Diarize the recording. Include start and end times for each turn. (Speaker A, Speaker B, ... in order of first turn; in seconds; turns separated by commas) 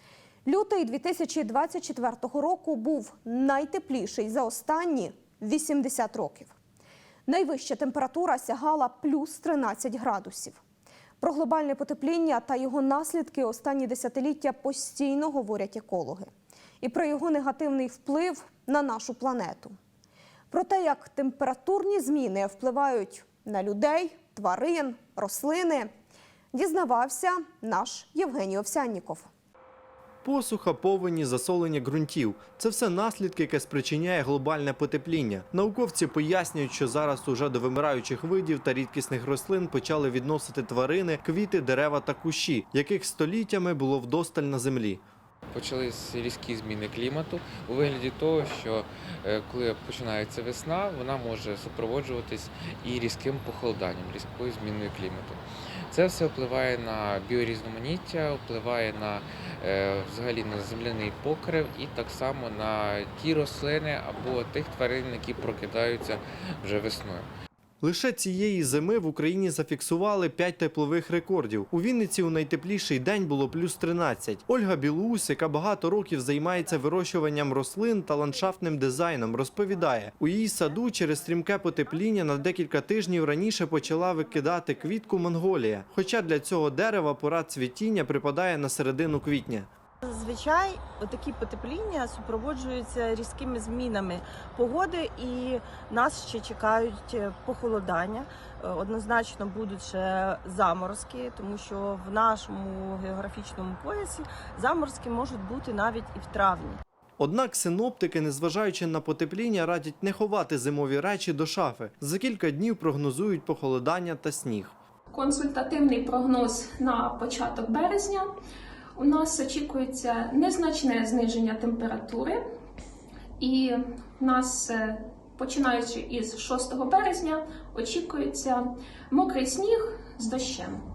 Speaker A: 0.5-6.5, Speaker A: 7.3-10.6, Speaker A: 11.2-19.8, Speaker A: 20.5-25.9, Speaker A: 26.5-29.3, Speaker B: 30.2-45.0, Speaker C: 45.5-55.4, Speaker C: 55.9-67.3, Speaker B: 67.8-89.7, Speaker D: 90.0-106.8, Speaker B: 107.2-114.8, Speaker E: 115.1-118.3, Speaker E: 119.0-122.4, Speaker E: 123.4-130.8